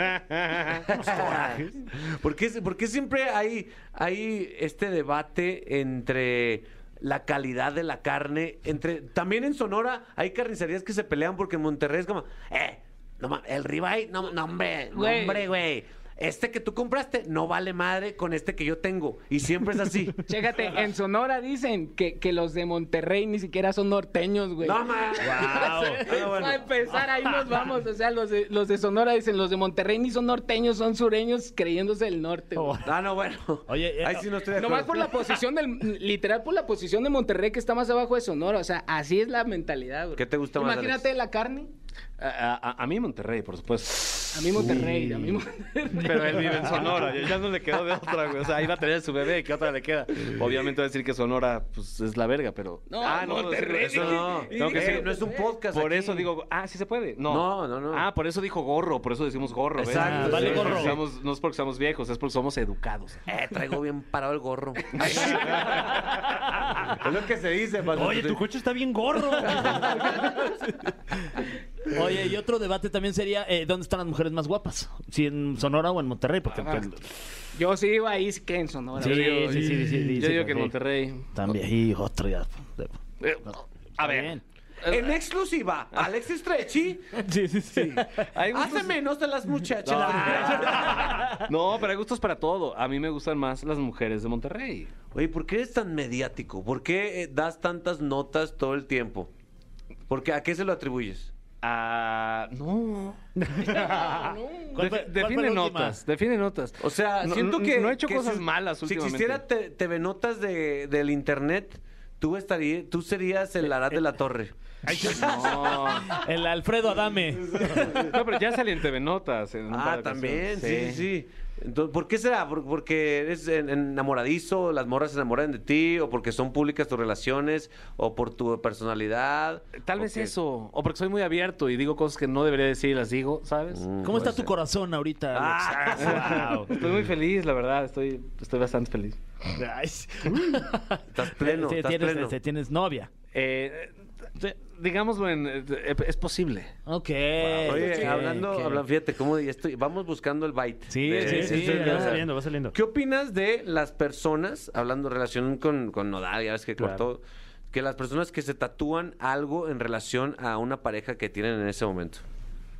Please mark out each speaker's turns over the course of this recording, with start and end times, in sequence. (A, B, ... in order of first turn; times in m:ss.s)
0:00.3-0:00.6 A
0:00.8-0:20.2 B
0:00.8-0:01.8 C
0:14.9-0:15.4 D
0:20.3-0:32.8 D
0:24.6-0:26.7 B
0:25.2-0:26.0 E
0:25.5-0:25.9 C
0:32.6-0:32.8 E
0:32.8-0:35.4 B
0:33.7-0:34.3 E
0:34.5-0:41.7 D
0:40.2-0:41.1 B
0:42.2-0:44.7 A
0:44.3-0:46.9 D
0:46.0-1:03.2 A
0:52.9-0:55.5 D
0:53.9-0:56.3 B
0:57.2-0:58.1 B
0:59.8-1:01.0 B
1:00.0-1:00.7 C
1:00.0-1:01.0 E
1:03.3-1:08.4 B
1:05.0-1:05.6 A
1:07.9-1:10.4 C
1:09.5-1:10.3 B
1:11.9-1:17.0 E
1:16.6-1:16.9 D
1:17.5-1:19.5 D
1:19.0-1:20.7 E
1:19.0-1:21.3 A
1:19.0-1:20.2 C
1:21.3-1:24.4 E
1:23.2-1:25.2 A
1:24.8-1:27.1 B
1:27.3-1:28.2 E
1:27.7-1:29.0 A
1:28.5-1:31.3 B
1:29.8-1:34.9 A
1:30.2-1:31.3 C
1:35.1-1:39.3 B
1:40.1-1:41.3 B
1:41.6-1:43.2 A
1:43.4-1:44.3 C
1:43.6-1:44.8 D
1:44.7-1:46.0 E
1:44.7-1:49.4 A
1:46.8-1:54.5 B
1:54.9-1:55.3 E
1:55.0-1:56.0 B
1:55.1-1:56.2 A
1:56.0-1:58.1 E
1:57.5-1:58.2 B
1:57.9-2:01.0 A
1:59.7-2:10.3 B
2:09.8-2:13.8 A
2:13.7-2:14.5 B
2:14.0-2:16.8 E
2:15.3-2:16.8 B
2:16.0-2:19.2 A
2:16.3-2:16.6 C
2:19.6-2:23.1 E
2:21.1-2:22.4 B
2:23.3-2:26.7 A
2:26.8-2:28.8 E
2:27.6-2:28.3 A
2:27.6-2:42.2 B
2:30.9-2:32.2 E
2:31.2-2:32.8 C
2:36.8-2:37.0 C